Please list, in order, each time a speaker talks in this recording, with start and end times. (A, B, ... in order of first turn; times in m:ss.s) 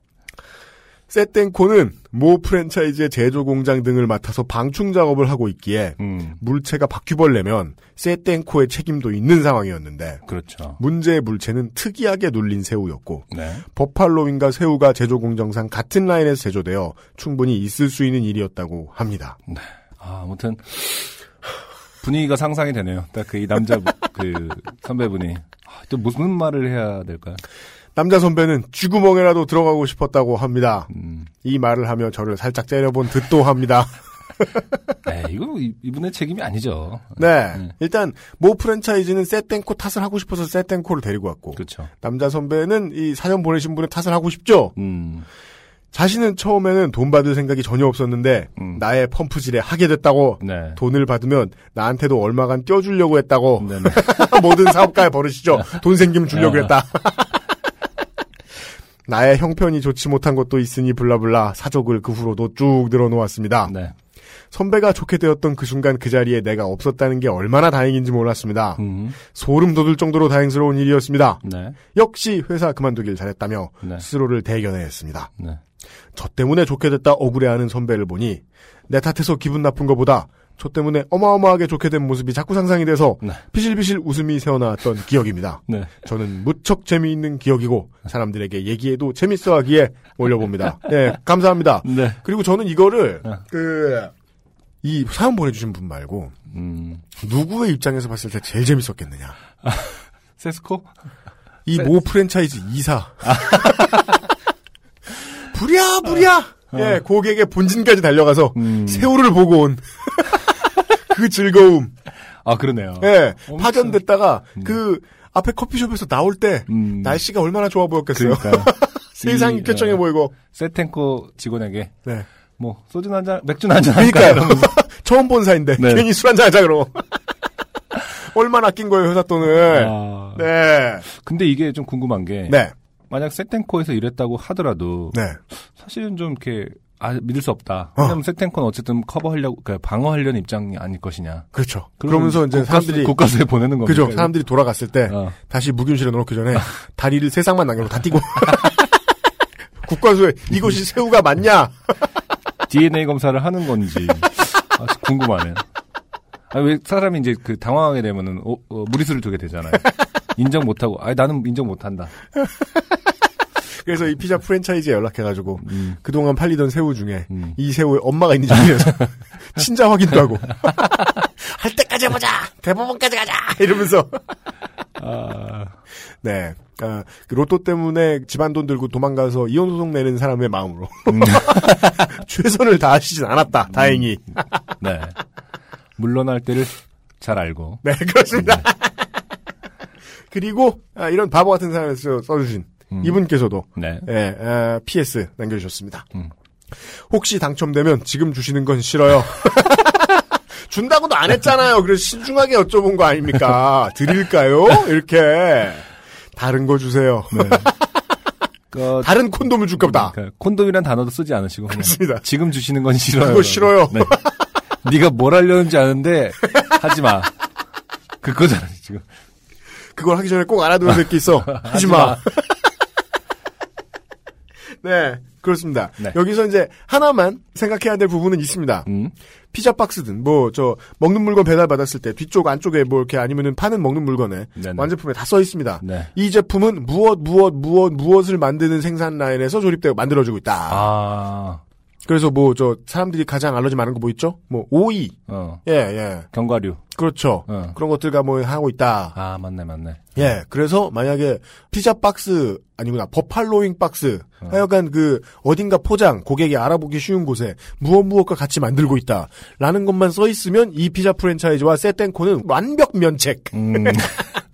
0:01.1-0:10.2 A
0:06.0-0:06.4 B
0:10.2-0:10.8 B
0:10.8-0:19.4 A
0:13.3-0:13.6 B
0:19.5-0:21.1 B
0:22.0-0:27.4 B
0:28.0-0:30.9 A
0:30.9-0:31.3 B
0:31.4-0:34.8 A
0:35.0-0:37.7 B
0:37.2-0:44.8 A
0:41.6-0:41.9 B
0:44.8-0:45.3 B
0:45.9-0:57.4 A
0:48.6-0:48.8 B
0:50.4-0:50.8 B
0:53.6-0:54.3 B
0:56.3-0:56.7 B
0:59.0-1:03.7 A
1:03.7-1:03.9 B
1:04.5-1:11.4 A
1:08.8-1:09.2 B
1:11.4-1:11.8 B
1:11.9-1:15.3 A
1:16.1-1:34.1 A
1:25.7-1:26.0 B
1:31.8-1:32.2 B
1:34.8-1:36.3 A
1:36.5-1:37.0 B
1:37.1-1:39.4 A
1:39.6-1:40.9 B
1:41.6-1:44.0 A
1:43.2-1:44.2 B
1:45.4-1:51.9 A
1:46.7-1:47.0 B
1:48.5-1:49.1 B
1:52.4-1:54.0 B
1:53.0-2:00.3 A
1:56.7-1:57.2 B
1:58.1-2:02.0 B
2:02.6-2:04.8 B
2:03.9-2:07.2 A
2:05.8-2:06.1 B
2:08.0-2:11.0 A
2:09.6-2:10.4 B
2:11.1-2:21.5 B
2:12.5-2:12.7 A
2:15.1-2:15.4 A
2:21.5-2:23.2 A
2:22.0-2:24.3 B
2:23.8-2:28.9 A
2:25.1-2:25.4 B
2:29.8-2:31.7 A
2:32.7-2:35.6 B
2:36.5-2:42.1 B
2:43.7-2:54.3 A
2:45.6-2:46.0 B
2:47.3-2:47.6 B
2:55.0-2:55.8 B
2:56.2-3:04.6 A
3:01.1-3:02.1 B
3:03.7-3:04.0 B
3:04.8-3:05.2 B
3:06.0-3:07.8 B
3:07.8-3:09.1 A
3:08.3-3:08.6 B
3:10.3-3:16.1 A
3:12.9-3:13.2 B
3:13.7-3:14.1 B
3:16.8-3:28.0 A
3:27.3-3:27.7 B
3:28.7-3:29.2 B
3:29.0-3:30.1 A
3:29.8-3:34.1 B
3:31.7-3:32.2 A
3:33.2-3:34.4 A
3:34.8-3:37.3 B
3:38.2-3:39.0 B
3:39.9-3:42.6 A
3:41.5-3:42.3 B
3:44.8-3:48.9 A
3:48.8-3:49.1 B
3:49.5-4:00.9 A
3:54.6-3:54.9 B
3:55.8-3:56.1 B
4:00.7-4:01.6 B
4:02.0-4:06.3 A
4:05.3-4:05.6 B
4:06.3-4:06.8 B
4:06.9-4:09.2 A
4:07.5-4:07.8 B
4:09.1-4:10.2 B
4:10.2-4:24.4 A
4:23.5-4:24.3 B